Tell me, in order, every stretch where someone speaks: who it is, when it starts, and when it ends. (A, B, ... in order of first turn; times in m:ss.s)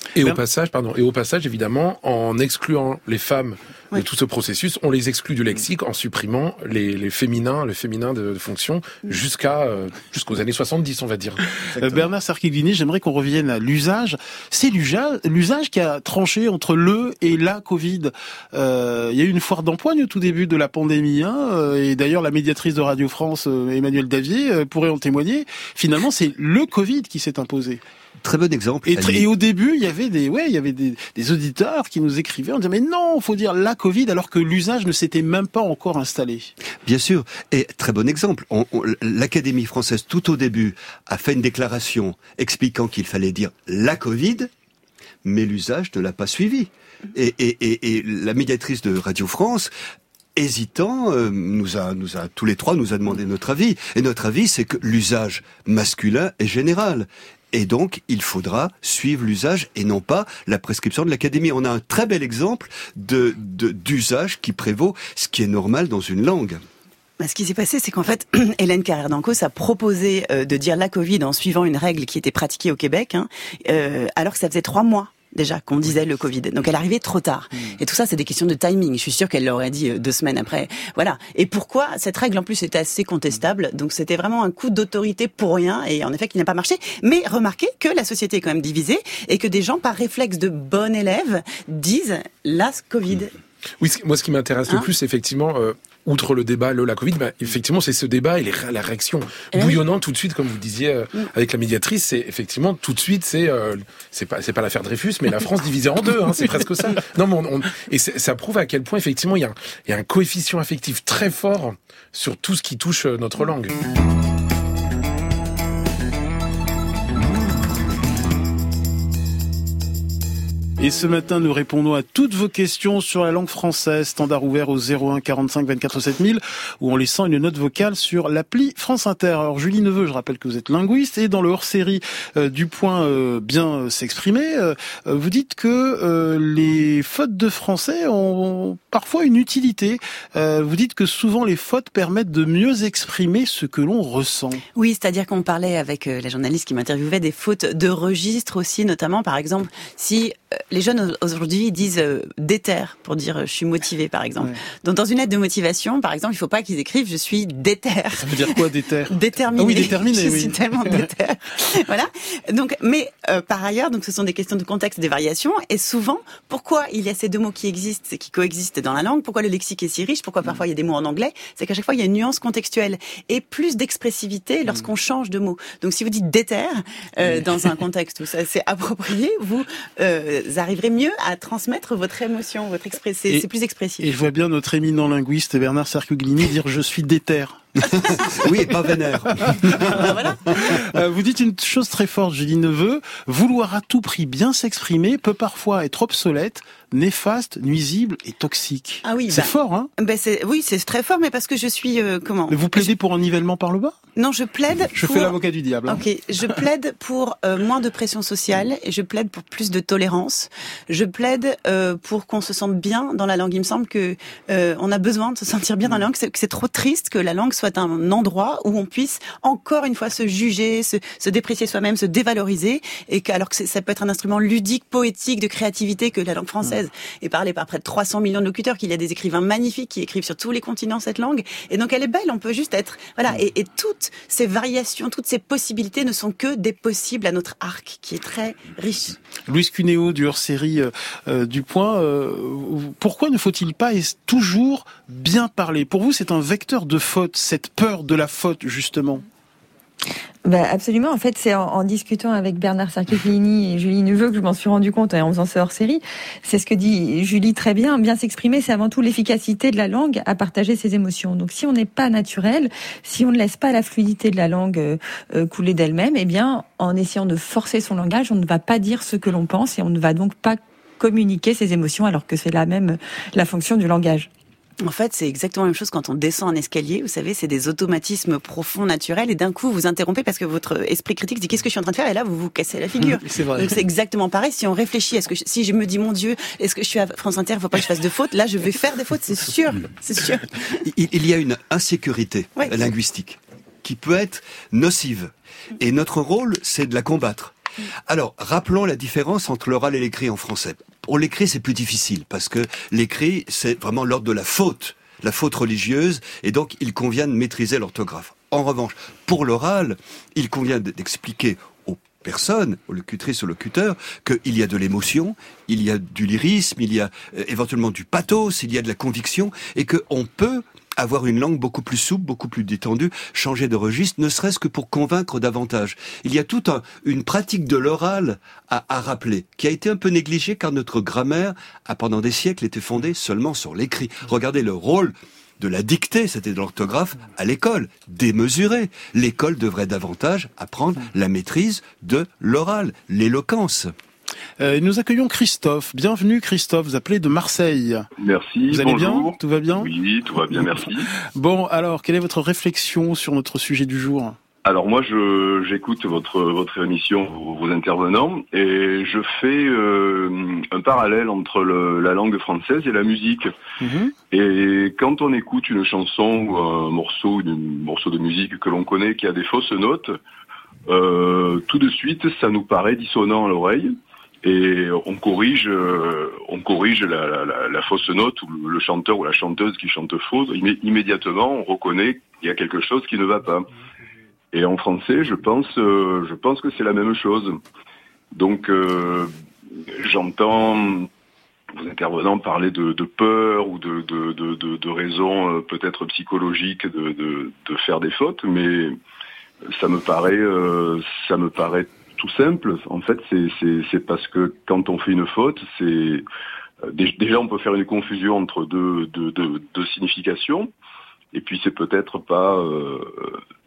0:00.2-0:12.1 A
0:11.8-0:27.8 B
0:28.2-0:29.3 C
0:28.9-0:36.5 B
0:36.8-0:44.5 C
0:45.2-0:49.7 C
0:50.4-1:06.6 C
1:07.2-1:33.3 D
1:33.8-1:53.8 A
1:39.5-1:39.8 D
2:00.8-2:24.6 B
2:24.8-3:04.0 D
2:38.2-2:41.0 B
2:57.2-2:57.5 B
3:04.0-3:07.6 B
3:08.3-3:10.1 C
3:09.4-3:19.9 B
3:09.9-3:10.8 D
3:19.0-3:22.9 D
3:22.5-3:23.9 B
3:24.2-3:59.2 D
3:24.9-3:26.0 B
3:59.5-4:09.2 B
4:10.4-4:34.3 E
4:34.8-4:50.8 D
4:43.1-4:43.8 B
4:50.8-4:57.6 C
4:58.1-5:43.9 C
5:44.6-5:48.1 B
5:48.2-5:51.1 F
5:48.7-5:49.9 B
5:51.3-5:54.4 B
5:54.6-6:03.5 F
6:03.8-6:04.1 B
6:04.3-6:10.1 F
6:10.9-6:23.7 F
6:24.5-6:27.6 F
6:28.4-6:29.3 F
6:29.9-6:31.1 F
6:31.7-6:39.0 F
6:39.7-6:46.2 F
6:46.9-6:50.7 F
6:51.3-6:53.4 F